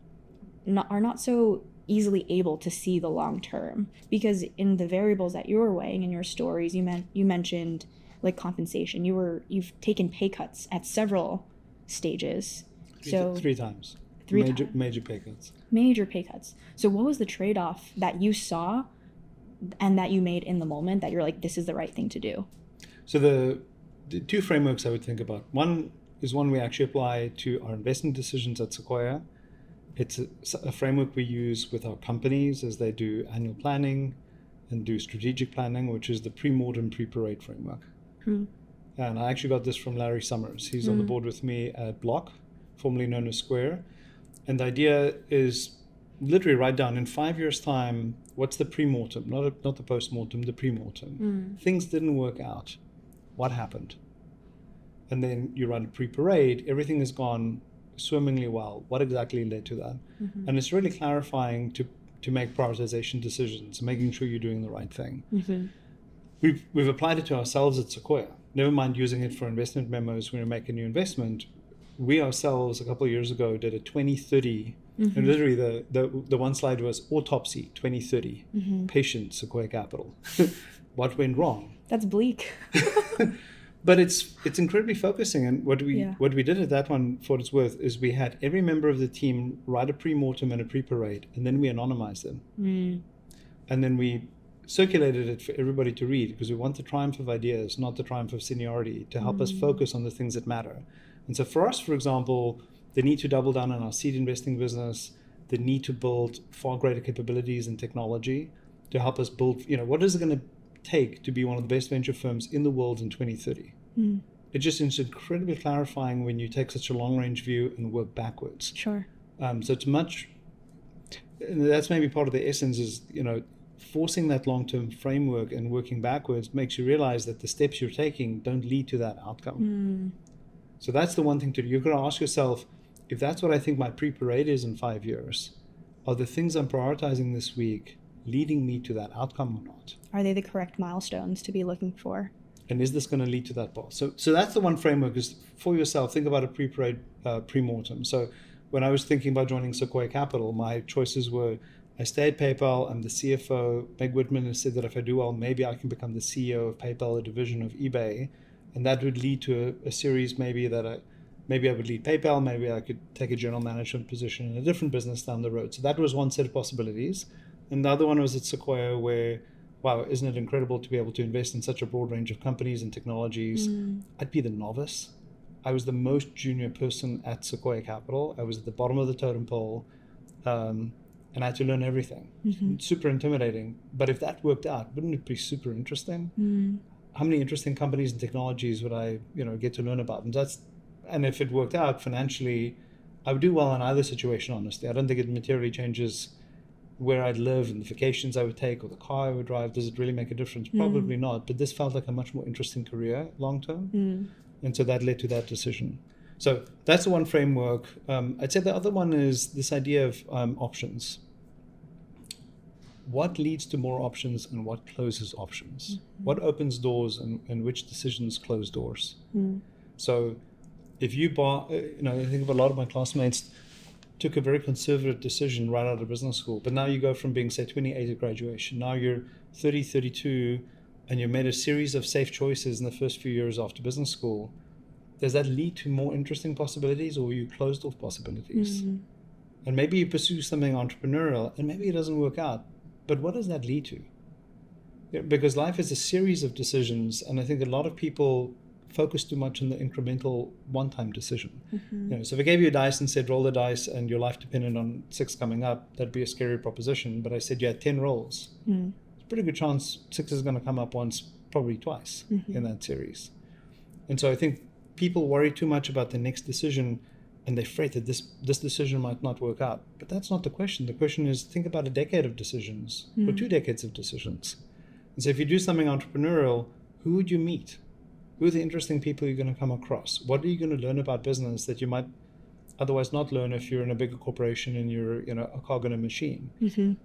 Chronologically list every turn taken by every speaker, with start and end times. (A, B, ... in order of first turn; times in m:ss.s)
0:00.6-0:13.5 A
0:13.0-0:15.5 B
0:14.2-0:14.7 A
0:15.7-0:18.9 A
0:19.7-0:22.5 A
0:23.1-0:29.2 B
0:30.0-0:34.2 B
0:34.7-0:37.9 B
0:39.0-0:43.9 B
0:40.8-0:41.2 A
0:44.5-0:52.8 B
0:51.2-0:51.6 A
0:53.4-0:54.0 B
0:55.1-1:05.3 B
1:00.2-1:00.5 A
1:05.3-1:05.7 A
1:06.4-1:21.8 B
1:15.0-1:15.4 A
1:18.5-1:18.9 A
1:21.9-1:23.2 A
1:22.8-1:32.4 B
1:25.9-1:26.2 A
1:32.6-1:33.0 A
1:33.7-1:53.8 B
1:39.2-1:39.8 A
1:54.0-1:54.2 A
1:54.5-1:58.8 B
1:58.8-1:59.1 A
1:59.4-2:00.3 B
2:01.4-2:09.7 B
2:09.6-2:10.1 A
2:10.8-2:20.0 B
2:20.1-2:22.3 A
2:22.7-2:59.9 B
2:53.6-2:54.0 A
3:00.4-3:06.4 B
3:02.4-3:02.8 A
3:06.4-3:06.8 A
3:07.1-3:16.3 B
3:17.0-3:24.0 B
3:20.7-3:21.1 A
3:23.9-3:24.3 A
3:24.6-3:31.2 B
3:33.0-3:39.2 B
3:36.0-3:36.3 A
3:39.3-3:39.6 A
3:40.0-3:40.4 B
3:41.0-3:43.5 B
3:44.2-3:54.6 B
3:55.2-3:58.8 B
3:58.5-3:59.0 A
3:59.6-4:04.1 B
4:05.1-4:18.6 B
4:11.7-4:12.2 A
4:18.7-4:19.0 A
4:19.2-4:23.3 B
4:22.3-4:22.6 A
4:24.1-4:34.6 B
4:33.2-4:33.4 A
4:35.2-4:37.8 B
4:38.4-4:42.1 B
4:42.8-4:46.6 B
4:46.6-4:47.0 A